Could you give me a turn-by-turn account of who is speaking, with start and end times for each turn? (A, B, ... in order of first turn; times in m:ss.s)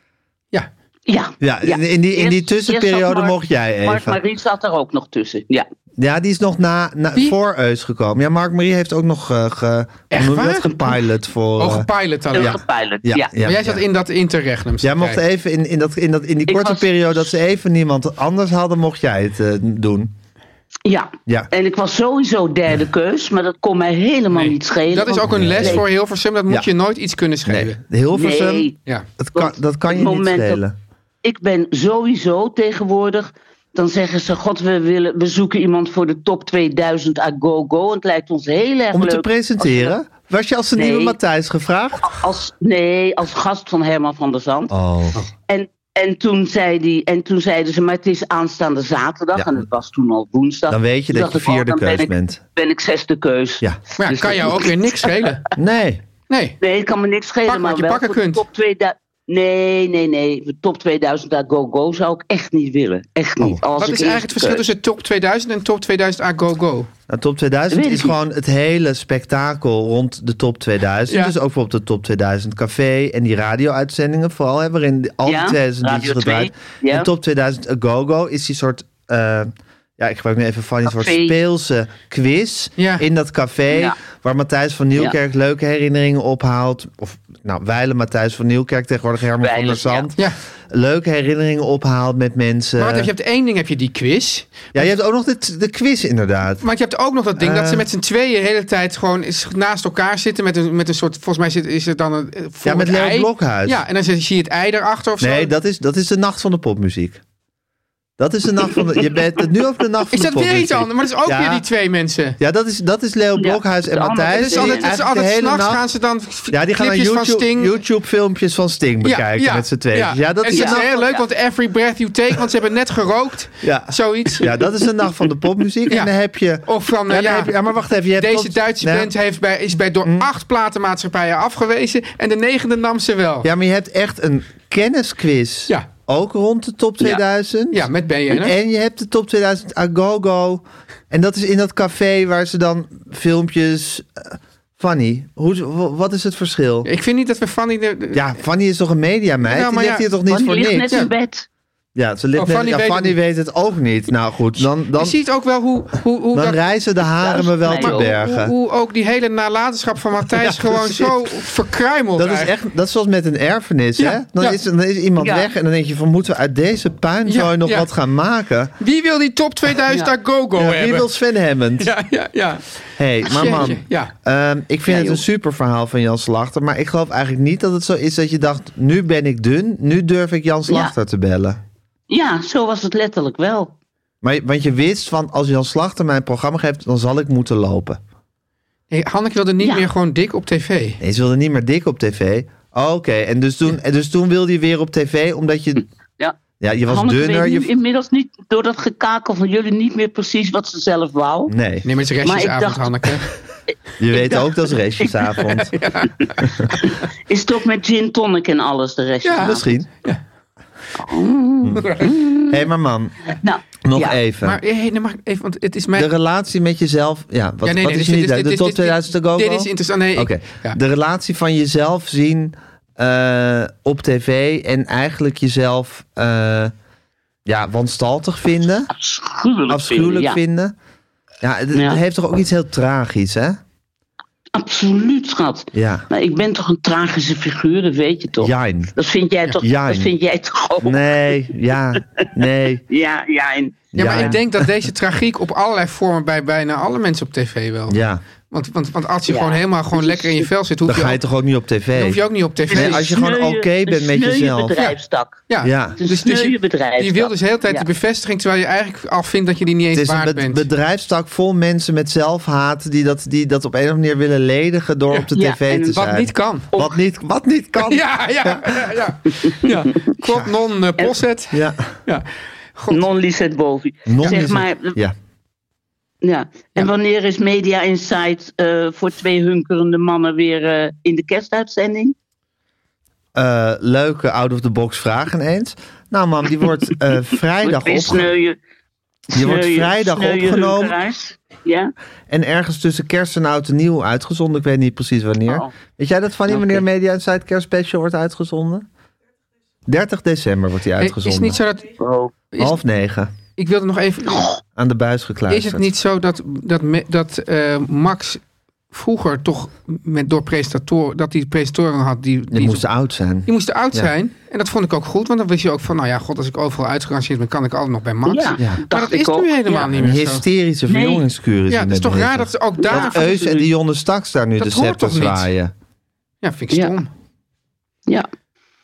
0:01.1-0:05.7 A
0:01.4-0:04.2 B
0:06.0-0:13.8 B
0:10.1-0:11.0 C
0:11.6-0:12.6 C
0:12.4-0:13.3 A
0:13.4-0:15.2 C
0:14.8-0:20.1 B
0:16.5-0:16.9 A
0:20.9-0:25.8 A
0:24.3-0:27.8 C
0:25.3-0:25.8 B
0:27.5-0:30.8 B
0:28.1-0:28.8 A
0:29.4-0:30.6 A
0:31.2-0:40.0 A
0:38.9-0:42.1 B
0:40.8-0:41.2 A
0:42.0-0:44.7 A
0:44.7-0:45.2 B
0:45.5-0:55.4 A
0:49.4-0:49.6 B
0:50.7-0:52.4 B
0:54.0-0:55.4 C
0:55.6-0:56.0 B
0:56.3-0:56.6 C
0:56.6-1:04.7 A
0:57.5-0:58.4 C
1:03.8-1:06.9 C
1:07.1-1:30.2 B
1:07.7-1:08.2 A
1:11.1-1:11.3 C
1:15.3-1:17.1 A
1:20.9-1:21.3 A
1:22.8-1:23.0 C
1:23.7-1:24.0 A
1:29.4-1:30.1 A
1:30.7-1:33.1 B
1:32.8-1:34.9 C
1:34.7-1:36.6 B
1:36.6-1:45.5 C
1:37.4-1:37.9 B
1:42.6-1:43.8 B
1:45.2-1:47.2 B
1:48.2-1:51.7 B
1:50.1-1:52.4 C
1:52.4-1:55.8 B
1:53.4-1:54.9 A
1:54.3-1:57.7 C
1:56.5-2:01.0 B
1:59.0-2:04.5 C
2:00.5-2:01.2 A
2:03.6-2:09.1 B
2:06.6-2:07.6 C
2:08.2-2:13.5 C
2:13.4-2:26.9 B
2:17.7-2:18.5 C
2:26.8-2:28.4 C
2:28.1-2:31.0 B
2:29.4-2:30.1 C
2:30.3-2:31.5 A
2:32.0-2:35.2 B
2:32.4-2:33.2 C
2:35.0-2:36.6 C
2:36.3-2:38.5 B
2:37.2-2:38.1 A
2:37.8-2:42.5 C
2:40.3-2:41.3 B
2:42.2-2:48.7 B
2:44.0-2:44.6 C
2:45.2-2:45.5 A
2:47.3-2:47.9 C
2:48.8-2:51.1 C
2:50.6-2:51.9 B
2:51.8-2:52.6 C
2:53.0-3:01.6 B
2:53.2-2:54.1 C
2:53.4-2:53.7 A
2:54.9-2:55.2 A
3:00.7-3:00.9 A
3:02.1-3:03.8 A
3:04.2-3:08.0 B
3:08.9-3:11.0 C
3:09.6-3:09.9 A
3:11.0-3:15.8 B
3:16.6-3:17.7 B
3:16.9-3:21.5 A
3:21.5-3:21.9 B
3:21.8-3:23.3 C
3:22.2-3:23.1 A
3:24.0-3:25.7 B
3:24.1-3:25.1 A
3:25.7-3:26.9 C
3:26.7-3:29.7 A
3:29.2-3:30.2 C
3:29.4-3:29.9 B
3:31.0-3:32.7 A
3:31.6-3:31.9 B
3:31.8-3:32.2 C
3:32.4-3:34.6 B
3:33.3-3:34.2 A
3:34.4-3:36.1 C
3:36.0-3:46.7 B
3:37.6-3:40.8 C
3:47.4-3:48.9 B
3:48.9-3:50.4 A
3:49.7-3:50.8 B
3:51.4-3:53.6 B
3:51.7-3:52.0 A
3:54.5-4:01.0 A
3:55.7-3:56.1 B
3:58.4-3:58.9 B
3:59.6-4:00.1 B
4:00.8-4:02.8 B
4:02.9-4:04.4 A
4:03.9-4:04.4 B
4:04.0-4:08.0 C
4:07.9-4:08.2 B
4:08.5-4:11.2 C
4:09.3-4:10.5 A
4:10.9-4:12.2 B
4:12.0-4:13.1 C
4:12.7-4:17.9 A
4:12.7-4:14.8 B
4:15.5-4:20.7 C
4:15.6-4:16.0 B
4:19.9-4:28.8 B
4:25.1-4:26.7 C
4:25.3-4:25.8 A
4:27.8-4:33.0 C
4:29.5-4:29.9 A
4:30.2-4:30.5 B
4:31.5-4:31.9 B
4:32.9-4:35.0 A
4:34.1-4:35.2 B
4:36.2-4:42.2 A
4:43.4-4:48.3 B
4:47.6-4:48.6 A
4:49.3-4:51.9 A
4:49.3-4:51.0 B
4:52.3-4:58.9 B
4:56.5-4:56.8 A
4:59.9-5:01.6 B
5:01.0-5:01.9 C
5:02.0-5:02.4 A
5:02.5-5:02.8 C
5:02.6-5:03.3 B
5:03.6-5:04.5 C
5:04.3-5:04.6 A
5:04.8-5:05.9 B
5:05.5-5:12.8 C
5:12.5-5:14.1 B
5:13.5-5:20.4 C
5:18.3-5:19.9 A
5:19.9-5:25.7 B
5:20.9-5:21.2 A
5:21.7-5:23.4 C
5:22.8-5:23.7 A
5:24.6-5:25.5 C
5:26.4-5:27.1 C